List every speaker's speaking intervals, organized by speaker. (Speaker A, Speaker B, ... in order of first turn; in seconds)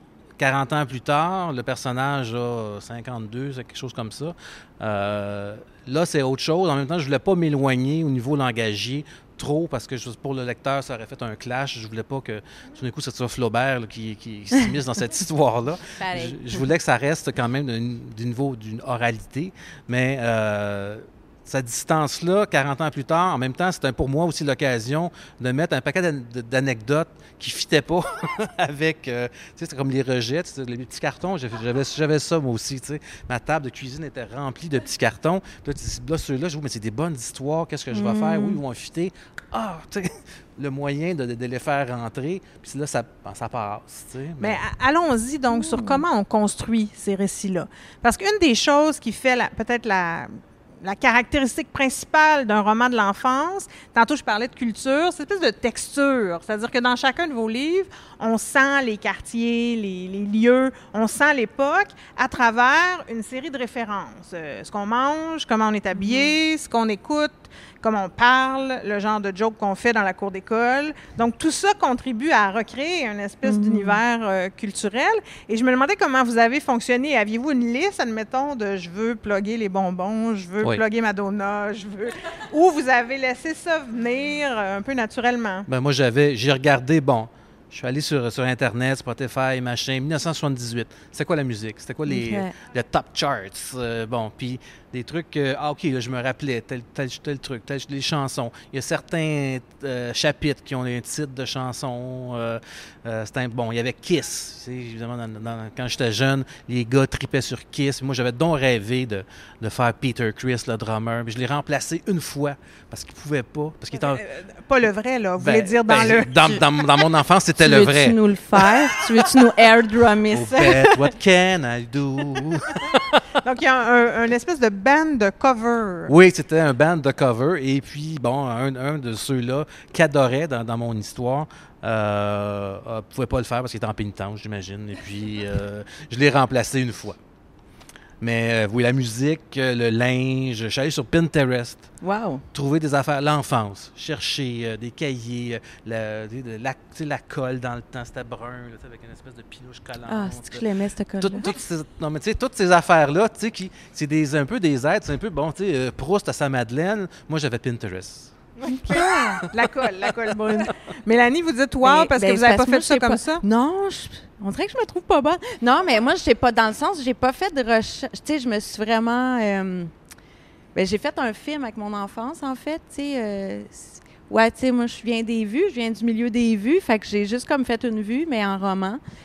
Speaker A: 0.4-44.6, 85.7-114.2, 115.4-119.5, 120.3-123.2, 126.1-137.2, 138.2-142.0, 142.5-150.6, 151.2-158.3, 158.8-159.4
Speaker B: 16.0-16.6, 37.9-38.6, 45.5-46.0, 65.9-66.3, 73.4-74.0, 92.1-92.5, 117.6-121.0, 142.0-142.4, 150.1-151.5, 161.8-169.9, 170.7-179.0
Speaker C: 44.4-50.3, 50.8-85.7, 114.0-116.6, 123.4-126.1, 158.6-163.4